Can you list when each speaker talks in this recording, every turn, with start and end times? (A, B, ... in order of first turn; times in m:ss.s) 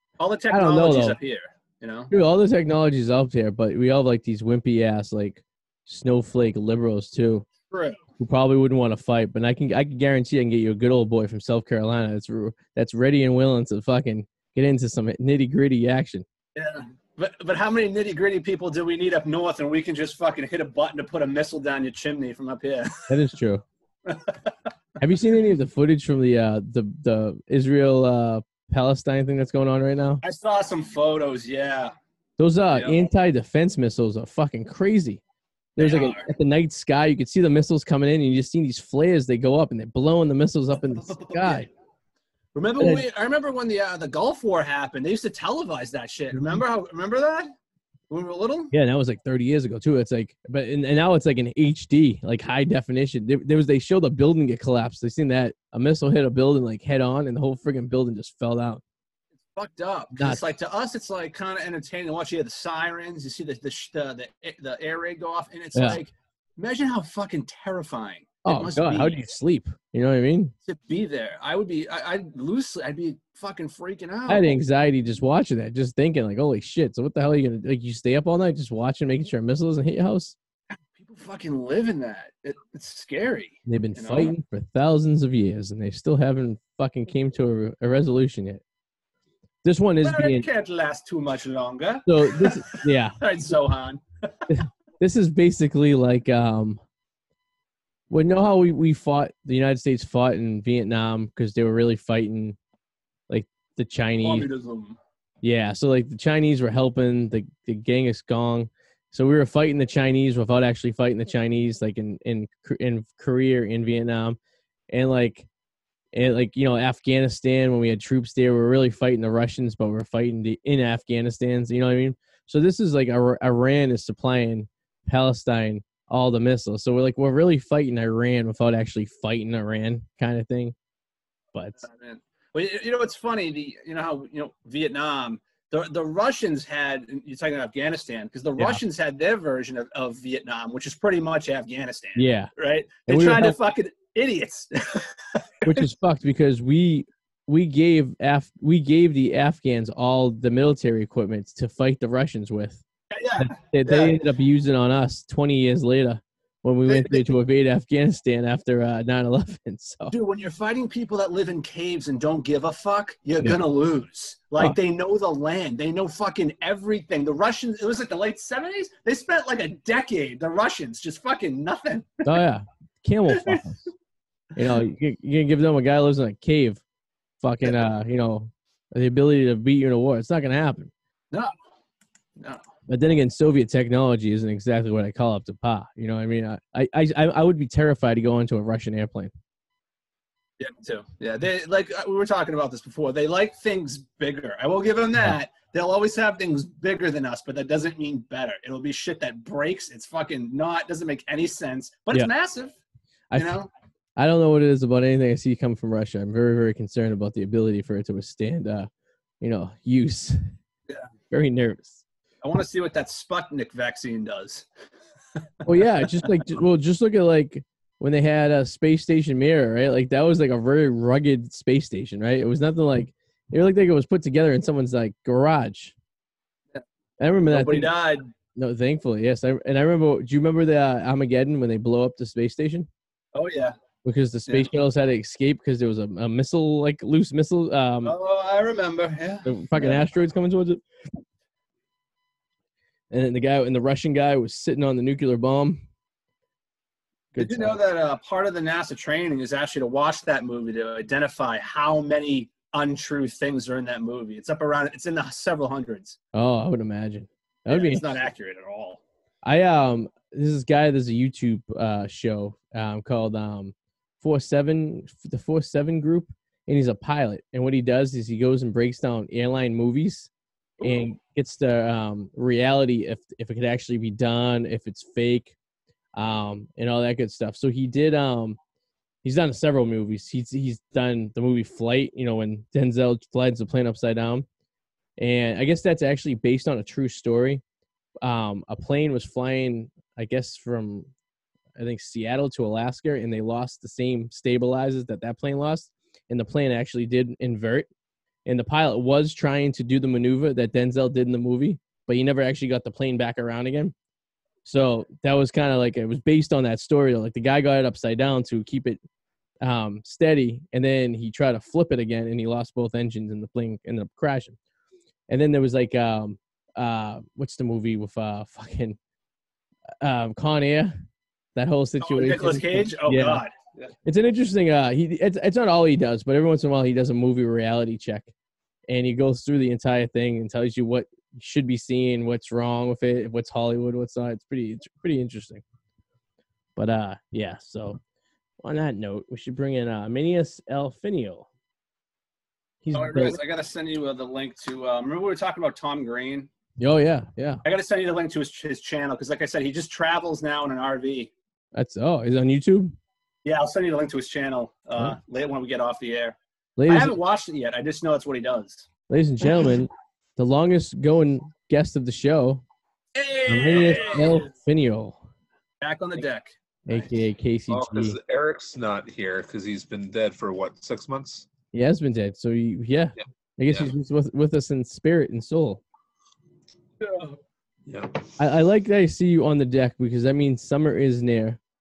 0:00.2-0:02.1 A
0:00.5-0:01.2 B
0:02.1-0:07.5 B
0:07.7-0:08.0 A
0:08.2-0:16.2 B
0:16.6-0:23.2 A
0:23.1-0:23.6 B
0:24.1-0:24.5 A
0:25.0-0:30.2 B
0:30.2-0:31.9 A
0:32.4-0:35.2 B
0:32.7-0:33.0 A
0:35.8-0:41.7 B
0:35.8-0:36.3 A
0:41.1-0:41.6 A
0:42.6-0:47.5 A
0:42.8-0:43.0 B
0:46.3-0:46.6 B
0:48.1-0:48.7 A
0:48.7-0:58.8 B
0:59.5-1:09.2 A
1:00.2-1:00.4 B
1:05.8-1:06.0 B
1:08.4-1:10.5 B
1:10.7-1:14.6 A
1:14.3-1:20.4 B
1:20.9-1:24.3 A
1:23.7-1:28.6 B
1:29.6-1:30.5 B
1:30.0-1:34.5 A
1:32.1-1:33.2 B
1:34.5-1:36.8 B
1:38.1-1:42.6 B
1:43.3-1:44.5 B
1:44.2-1:45.0 A
1:45.4-1:54.4 B
1:54.9-1:55.5 B
1:56.1-2:10.8 B
2:11.5-2:11.8 B
2:11.8-2:25.8 A
2:22.2-2:22.5 B
2:23.1-2:23.6 B
2:25.6-2:32.8 B
2:33.1-2:34.2 A
2:33.4-2:40.1 B
2:36.9-2:37.3 A
2:40.1-2:52.4 A
2:52.2-2:53.9 B
2:53.3-2:53.6 A
2:54.6-2:56.8 B
2:57.4-3:00.9 B
3:02.4-3:02.7 A
3:02.9-3:09.3 B
3:10.6-3:22.8 A
3:23.3-3:23.6 B
3:23.4-3:23.7 A
3:24.2-3:28.9 B
3:29.4-3:30.5 B
3:31.3-3:32.0 B
3:32.4-3:34.7 A
3:35.6-3:46.0 B
3:35.7-3:36.3 A
3:47.2-3:47.9 B
3:47.5-3:48.3 A
3:48.6-3:52.9 B
3:53.4-3:53.8 A
3:54.0-3:58.2 B
3:58.0-4:00.0 A
3:59.4-4:01.2 B
4:03.1-4:05.8 B
4:07.3-4:07.8 B
4:07.4-4:16.2 A
4:16.3-4:18.1 B
4:17.7-4:19.0 A
4:19.4-4:30.3 B
4:30.8-4:31.1 A
4:30.8-4:35.6 B
4:36.2-4:38.6 B
4:39.2-4:44.5 B
4:45.2-4:47.6 B
4:48.2-4:51.1 B
4:51.8-4:57.9 B
4:58.5-5:03.9 B
5:04.6-5:09.0 B
5:09.6-5:14.6 B
5:15.3-5:19.0 B
5:20.0-5:21.0 B
5:21.6-5:23.4 B
5:22.0-5:23.5 A
5:24.0-5:28.3 B
5:28.9-5:35.6 B
5:36.8-5:38.0 B
5:38.6-5:41.5 B
5:42.8-5:43.4 B
5:42.9-5:46.5 A
5:46.8-5:47.6 B
5:47.6-5:51.3 A
5:51.7-5:53.0 B
5:53.4-5:56.4 A
5:56.8-5:57.1 B
5:56.9-5:58.9 A
5:59.1-6:02.6 B
6:03.2-6:04.4 A
6:03.5-6:05.2 B
6:05.8-6:07.2 A
6:06.9-6:08.2 B
6:07.7-6:11.5 C
6:11.7-6:15.8 B
6:17.0-6:17.4 A
6:17.9-6:18.3 C
6:18.4-6:21.6 B